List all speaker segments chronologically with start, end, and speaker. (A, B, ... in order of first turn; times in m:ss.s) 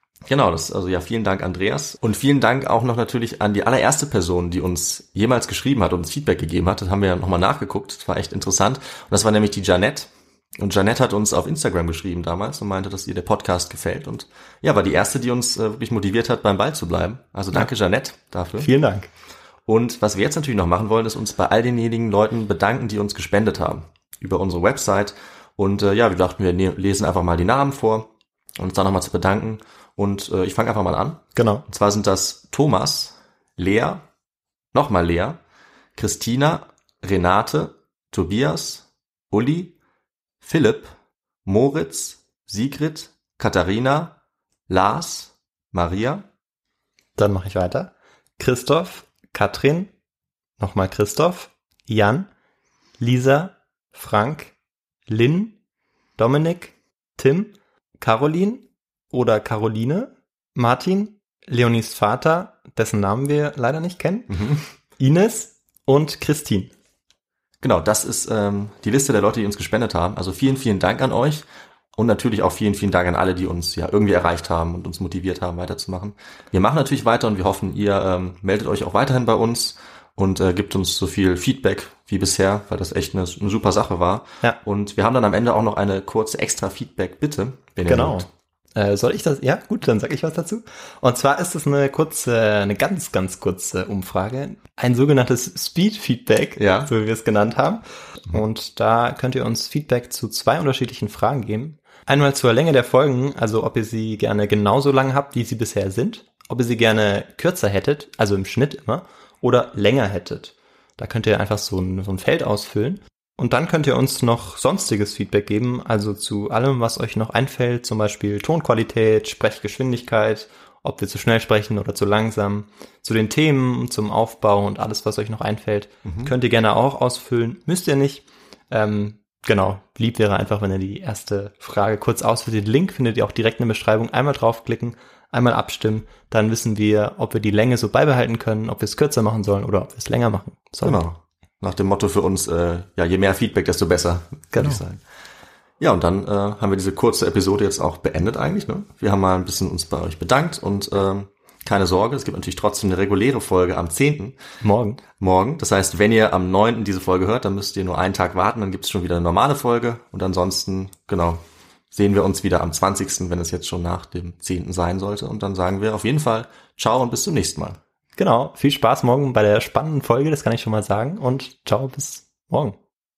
0:00.3-0:18.7 A
0:18.6-0:19.1 B
0:19.7-0:34.0 A
0:31.4-0:31.6 B
0:34.7-0:35.4 A
0:36.0-0:39.8 A
0:40.4-0:40.9 A
0:41.5-0:44.2 A
0:44.7-0:46.3 A
0:47.2-0:49.9 B
0:50.6-0:52.3 B
0:53.0-0:54.5 B
0:55.1-0:55.6 B
0:56.2-1:04.3 B
1:04.3-1:04.6 A
1:05.0-1:06.7 B
1:07.6-1:28.3 A
1:27.8-2:21.0 B
1:36.6-1:36.9 A
2:06.0-2:06.3 A
2:20.8-2:25.0 A
2:24.5-2:24.8 B
2:25.8-2:34.4 A
2:34.6-2:35.0 B
2:35.2-2:41.4 A
2:41.9-2:47.8 A
2:48.2-2:52.8 B